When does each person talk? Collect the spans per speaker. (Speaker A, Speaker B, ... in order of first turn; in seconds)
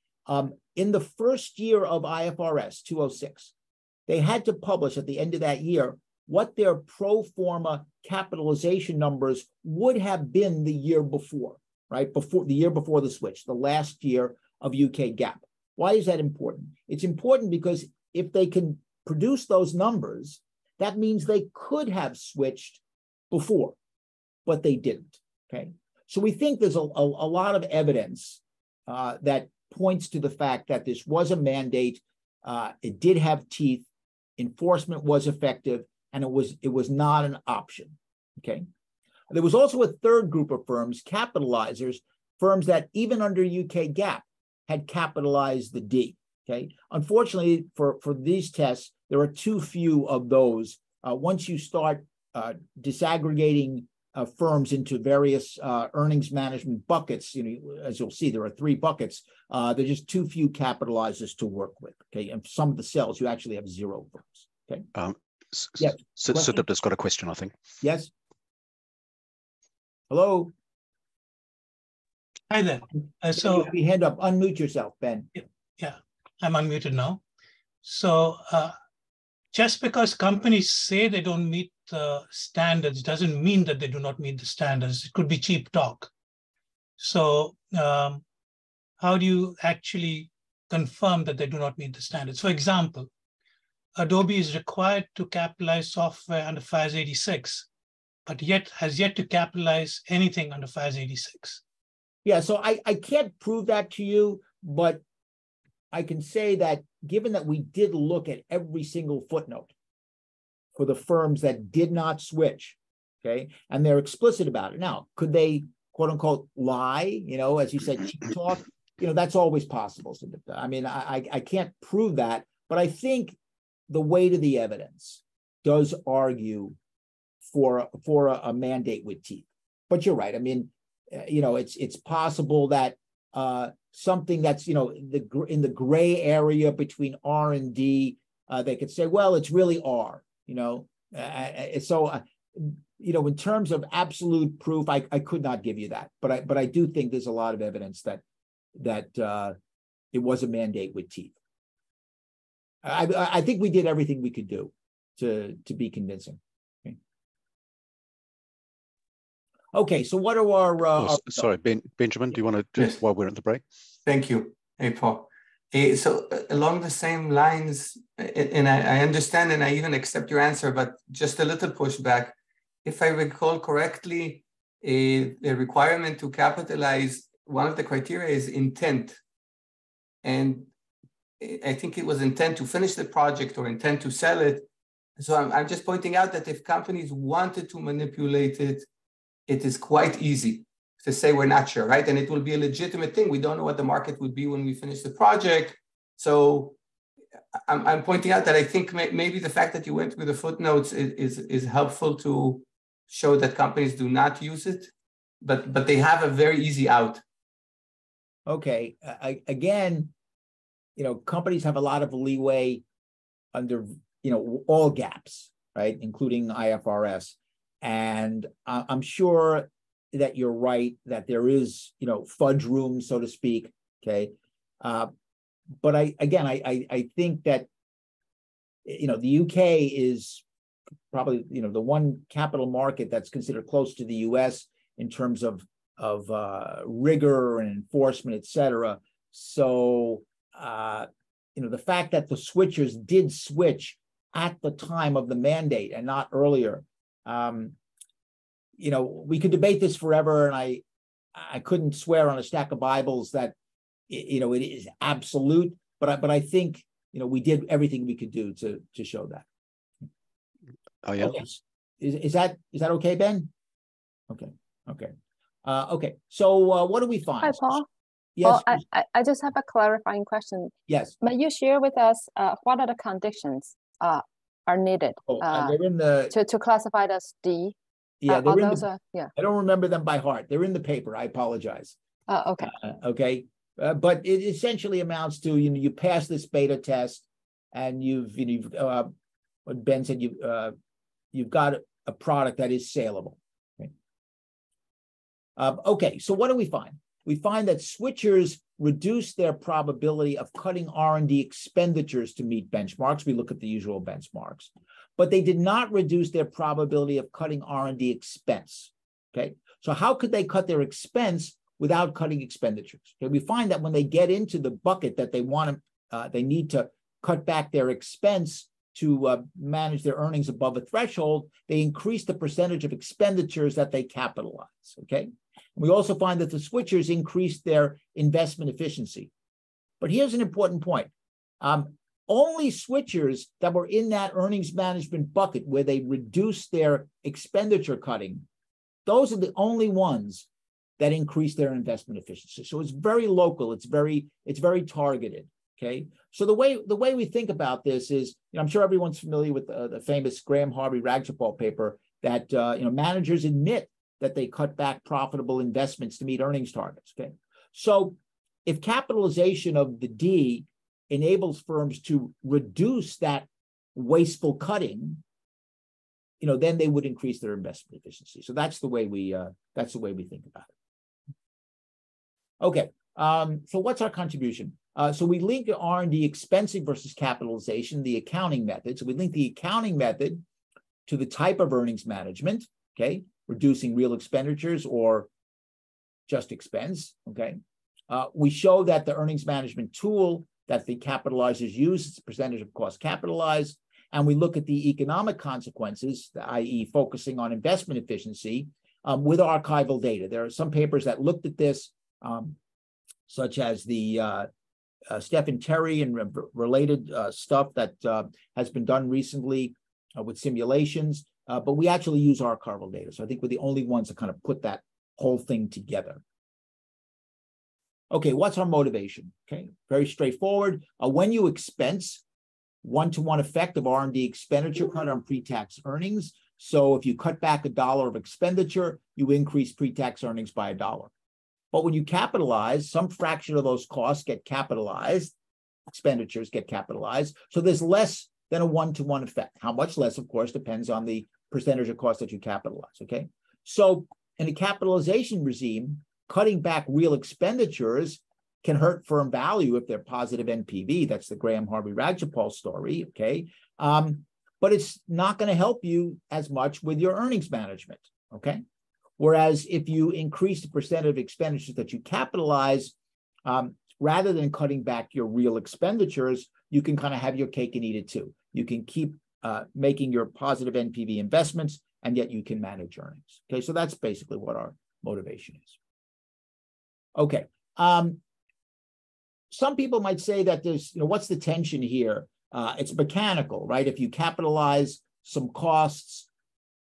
Speaker A: 0.3-3.5, 4.1-23.8, 24.5-33.9, 34.4-38.6, 39.3-64.9, 65.8-66.6, 67.8-68.1, 70.1-70.5, 73.3-75.3, 102.2-105.0, 105.9-109.7, 110.8-123.4, 123.9-126.8, 127.5-148.2, 148.8-149.6, 150.1-151.3, 152.8-157.0, 159.7-161.4, 208.5-210.1, 211.0-212.8, 213.5-225.1, 225.8-227.7, 228.8-230.4, 231.1-247.8, 248.8-250.8, 251.3-253.6, 254.1-259.4, 261.2-263.5, 264.3-265.1, 265.6-267.8, 268.4-268.8, 270.9-271.1, 275.3-276.3, 278.2-278.9, 279.4-281.9, 282.6-289.1, 289.7-290.7, 291.3-293.9, 295.6-329.3, 330.0-338.5, 339.1-340.5, 341.0-365.2, 366.4-370.7, 372.6-380.4, 381.1-385.3, 386.3-387.6, 388.1-402.6, 403.3-404.5, 405.1-416.2, 418.1-422.2, 422.8-431.1, 431.7-435.3, 435.9-458.6, 459.2-462.9, 463.4-475.8, 477.2-478.2, 479.5-486.3
Speaker B: 65.0-67.5, 161.0-163.6, 261.0-261.5
Speaker C: 72.5-73.7, 75.4-77.2, 77.8-78.8, 79.5-86.1, 87.0-88.2, 89.0-93.1, 94.0-97.7, 98.3-101.6
Speaker D: 164.1-179.2, 180.2-180.7, 181.4-188.9, 189.5-196.8, 197.7-207.2
Speaker E: 267.4-267.9, 268.4-275.8, 276.3-277.8, 278.3-279.3, 282.3-282.7